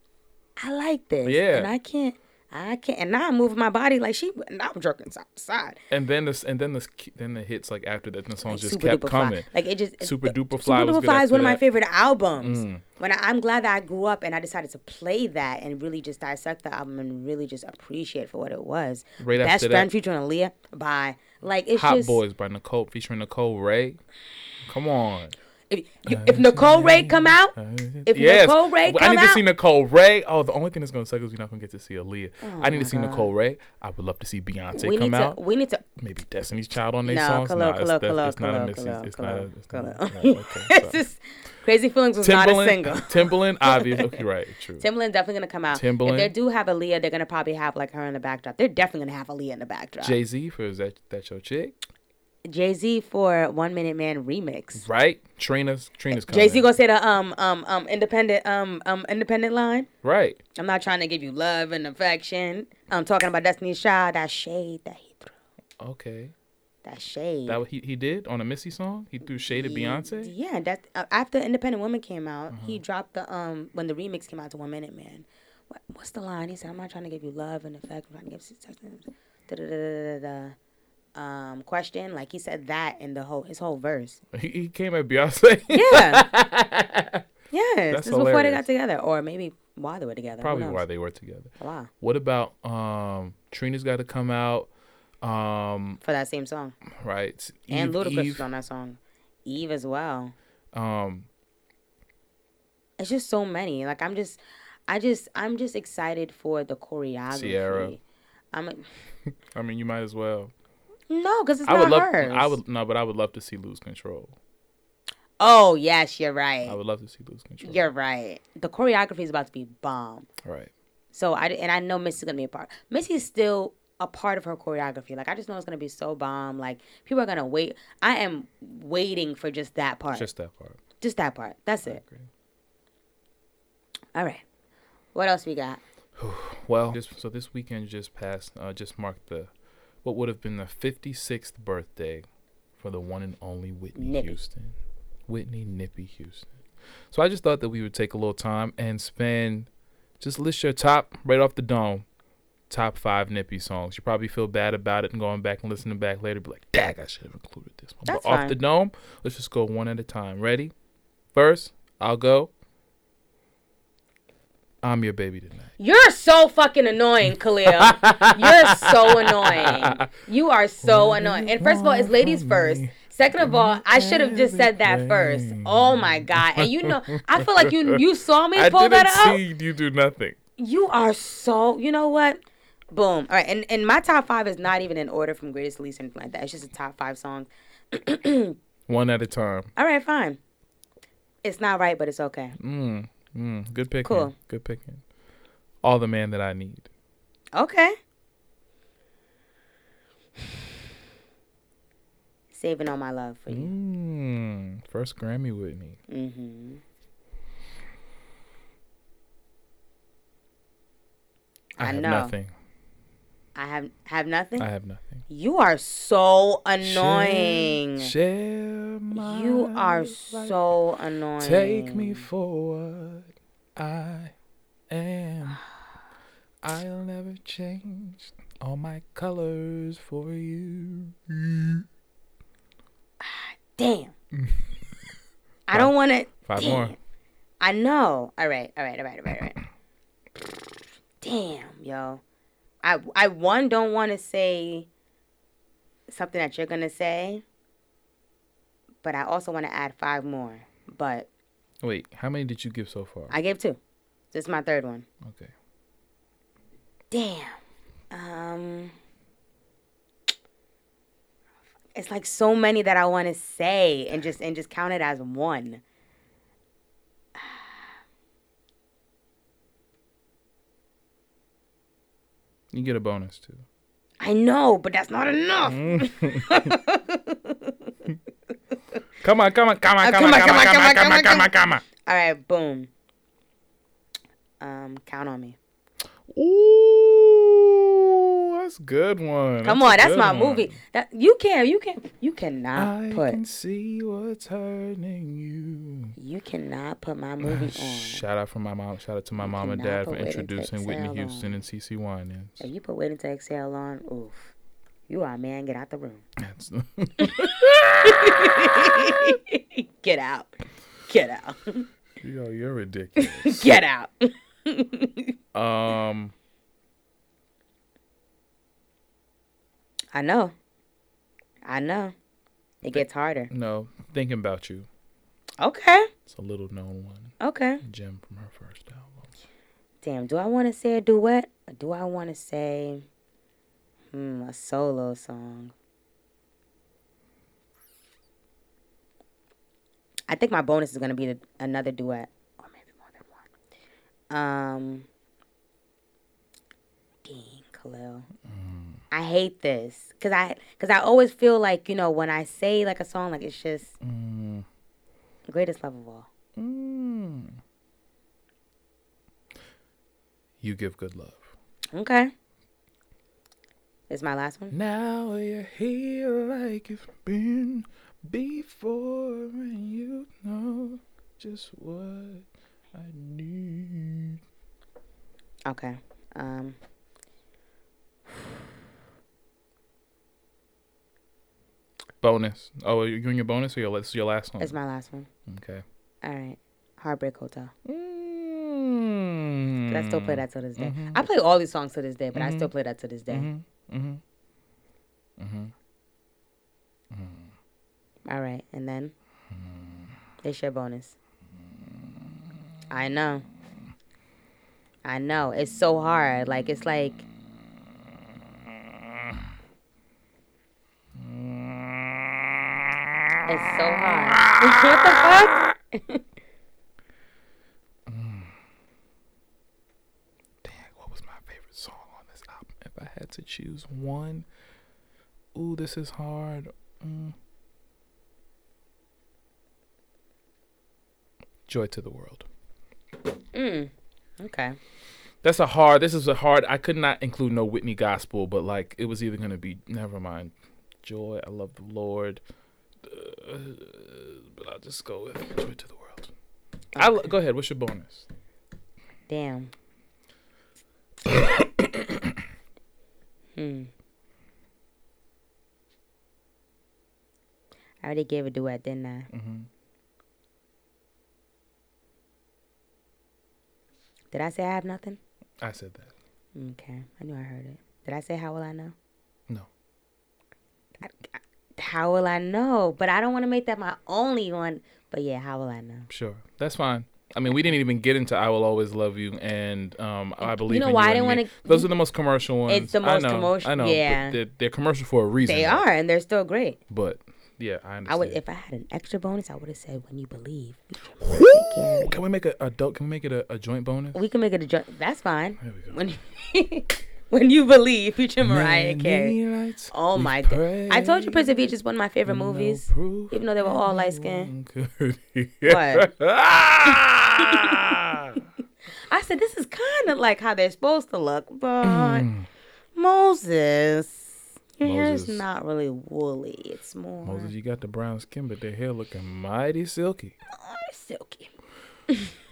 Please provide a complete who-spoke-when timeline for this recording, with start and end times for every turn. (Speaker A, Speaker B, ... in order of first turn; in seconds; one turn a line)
Speaker A: 0.6-5.8
Speaker B: 1.2-1.7
Speaker B: 5.9-11.6
Speaker A: 8.5-22.2
Speaker B: 12.4-12.8
Speaker B: 19.2-19.9
Speaker B: 21.7-24.0
Speaker B: 24.6-25.4
Speaker A: 25.7-27.6
Speaker B: 26.1-35.4
Speaker A: 28.1-29.4
Speaker A: 32.4-33.3
Speaker A: 34.8-35.8
Speaker B: 36.0-41.0
Speaker A: 37.1-44.2
Speaker B: 42.2-44.9
Speaker A: 44.8-50.2
Speaker B: 45.7-46.3
Speaker B: 50.0-51.8
Speaker A: 52.5-54.9
Speaker B: 54.8-56.7
Speaker A: 56.1-59.9
Speaker B: 60.0-60.4
Speaker A: 60.6-65.4
Speaker B: 65.8-66.3
Speaker A: 66.8-67.6
Speaker B: 67.5-70.3
Speaker A: 69.5-80.6
Speaker B: 72.5-72.8
Speaker A: 81.2-84.2
Speaker B: 84.3-87.2
Speaker A: 85.7-86.2
Speaker A: 87.5-90.8
Speaker B: 87.9-88.7
Speaker B: 90.4-94.7
Speaker A: 91.6-91.9
Speaker B: 95.2-96.0
Speaker A: 96.0-96.8
Speaker B: 96.9-98.5
Speaker A: 97.7-100.3
Speaker B: 100.7-101.3
Speaker A: 103.0-108.0
Speaker B: 107.3-108.0
Speaker A: 108.5-108.9
Speaker B: 109.5-110.5
Speaker A: 111.1-112.6
Speaker B: 111.7-114.4
Speaker A: 115.4-116.8
Speaker B: 116.7-117.8
Speaker A: 117.6-120.3
Speaker B: 120.4-120.7
Speaker A: 121.1-130.3
Speaker B: 130.1-130.8
Speaker A: 131.0-132.0
Speaker B: 131.8-132.3
Speaker A: 134.2-134.4
Speaker A: 135.1-135.8
Speaker B: 136.2-139.5
Speaker B: 140.0-142.3
Speaker B: 142.8-146.5
Speaker A: 144.0-144.4
Speaker B: 147.1-149.7
Speaker B: 150.2-152.1
Speaker B: 152.7-160.7
Speaker A: 158.1-158.6
Speaker B: 161.3-162.5
Speaker B: 164.8-165.7
Speaker A: 165.8-179.4
Speaker B: 167.7-170.1
Speaker B: 170.8-178.0
Speaker B: 178.5-180.4
Speaker A: 180.6-188.6
Speaker B: 188.9-189.7
Speaker A: 189.8-190.4
Speaker A: 191.4-192.6
Speaker B: 192.6-195.0
Speaker A: 194.0-194.3
Speaker B: 195.8-196.9
Speaker A: 197.6-198.0
Speaker A: 202.5-203.7
Speaker B: 203.5-206.0
Speaker A: 206.1-206.8
Speaker B: 211.8-212.5
Speaker A: 211.8-212.3
Speaker A: 213.6-214.7
Speaker B: 214.6-215.3
Speaker A: 215.3-218.1
Speaker B: 216.8-220.6
Speaker A: 219.1-222.3
Speaker B: 221.4-224.3
Speaker B: 224.9-225.6
Speaker B: 226.6-231.9
Speaker A: 233.2-234.1
Speaker B: 234.4-234.7
Speaker A: 235.7-237.0
Speaker B: 235.7-237.0
Speaker A: 237.6-239.6
Speaker A: 241.2-242.2
Speaker A: 242.8-244.9
Speaker A: 246.1-247.4
Speaker A: 249.0-251.3
Speaker B: 251.8-253.3
Speaker A: 253.3-253.8
Speaker A: 254.3-255.1
Speaker B: 255.2-255.5
Speaker A: 257.1-258.9
Speaker A: 261.9-265.8
Speaker A: 267.4-267.9
Speaker B: 272.7-273.6
Speaker A: 274.2-277.9
Speaker B: 275.6-276.8
Speaker B: 279.2-281.8
Speaker A: 280.0-282.9
Speaker A: 284.6-285.6
Speaker B: 286.3-290.8
Speaker A: 289.6-293.4
Speaker B: 292.8-296.1
Speaker A: 296.2-298.2
Speaker B: 297.4-302.7
Speaker A: 299.4-301.5
Speaker A: 302.6-304.5
Speaker A: 305.1-306.2
Speaker B: 306.4-309.3
Speaker A: 307.2-311.9
Speaker B: 312.2-313.7
Speaker A: 313.2-315.3
Speaker B: 315.5-316.3
Speaker A: 320.1-320.5
Speaker A: 321.7-322.1
Speaker A: 322.8-323.5
Speaker B: 322.9-324.9
Speaker A: 325.6-326.1
Speaker B: 326.3-329.3
Speaker A: 327.4-327.8
Speaker A: 330.0-333.1
Speaker A: 334.1-335.7
Speaker A: 340.3-343.5
Speaker A: 344.3-345.1
Speaker A: 347.2-348.3
Speaker B: 348.5-349.0
Speaker A: 349.1-353.9
Speaker B: 354.0-354.7
Speaker A: 355.5-356.3
Speaker B: 356.6-357.6
Speaker B: 360.6-361.5
Speaker A: 361.9-362.3
Speaker A: 364.1-364.8
Speaker B: 364.7-374.4
Speaker A: 375.7-376.8
Speaker B: 382.2-384.8
Speaker A: 384.6-385.3
Speaker B: 385.5-385.8
Speaker A: 386.2-387.7
Speaker B: 387.9-391.2
Speaker A: 389.9-393.5
Speaker B: 392.3-392.7
Speaker B: 393.3-394.2
Speaker B: 395.4-395.7
Speaker B: 397.1-397.5
Speaker A: 398.3-399.1
Speaker B: 399.5-400.1
Speaker A: 400.4-401.2
Speaker A: 402.9-403.5
Speaker A: 405.0-407.3
Speaker B: 411.1-413.3
Speaker A: 413.5-416.2
Speaker B: 414.0-415.7
Speaker B: 418.1-418.6
Speaker B: 420.6-424.5
Speaker B: 425.5-427.4
Speaker B: 431.7-432.5
Speaker A: 433.5-434.8
Speaker B: 435.4-442.4
Speaker B: 443.0-446.3
Speaker B: 446.9-448.3
Speaker A: 449.3-449.7
Speaker B: 451.3-452.4
Speaker A: 453.6-453.9
Speaker A: 458.0-459.3
Speaker B: 459.3-459.7
Speaker A: 464.3-465.2
Speaker B: 465.6-466.1
Speaker A: 466.6-468.9
Speaker A: 471.0-476.1
Speaker B: 476.1-485.8
Speaker A: 480.4-481.9
Speaker A: 482.7-484.4
Speaker A: 485.5-486.8
Speaker B: 486.9-488.4
Speaker A: 488.1-492.2
Speaker B: 491.2-494.2
Speaker A: 494.1-499.4
Speaker B: 495.6-496.0
Speaker B: 498.4-501.7
Speaker A: 499.9-504.5
Speaker B: 502.3-508.4
Speaker A: 505.6-506.1
Speaker A: 507.4-507.8
Speaker A: 509.1-512.3
Speaker B: 511.8-512.5
Speaker A: 513.0-517.5
Speaker B: 514.8-515.5
Speaker B: 517.2-520.4
Speaker A: 520.5-521.5